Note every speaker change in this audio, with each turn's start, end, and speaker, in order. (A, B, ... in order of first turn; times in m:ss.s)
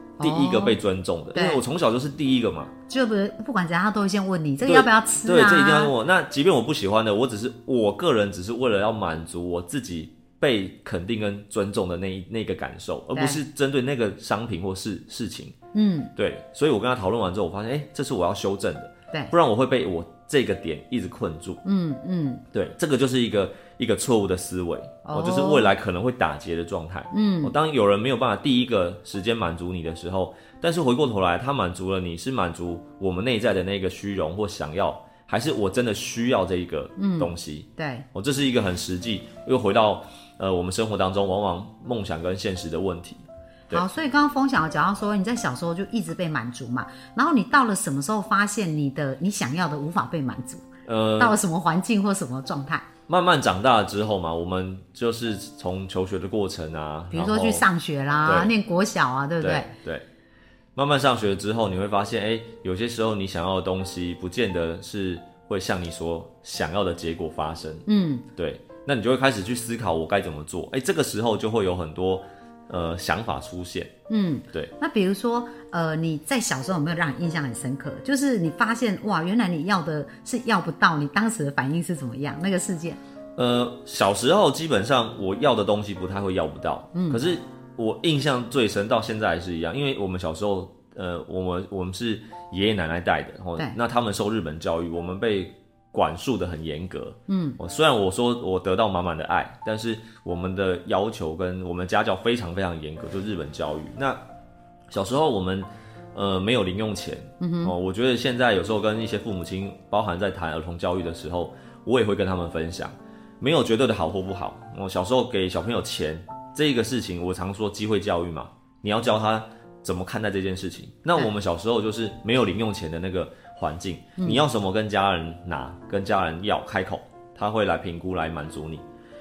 0:00.2-0:00.8 A
0:00.2-0:02.7 B
0:01.3-0:01.6 A
0:02.9-0:05.9 A
0:04.6-0:15.5 B
0:13.1-0:13.4 A
0:15.7-0:16.1 A
0:16.2-0:21.6 B
0:21.6-0:22.4 A
0:22.5-0:43.8 B
0:25.0-0:25.7 A
0:27.1-0:27.5 A
0:37.0-0:38.0 A
0:43.7-0:50.6 A
0:50.8-0:51.4 B
0:51.2-0:52.8 A
0:53.1-0:57.6 B
0:57.1-0:59.7 A
0:58.2-0:58.5 B
0:59.4-1:00.0 B
1:00.8-1:07.8 B
1:07.9-1:08.2 A
1:08.4-1:13.9 B
1:14.1-1:23.0 A
1:23.4-1:44.2 B
1:26.9-1:27.2 A
1:37.3-1:37.6 A
1:44.9-2:08.8 B
1:47.4-1:47.7 A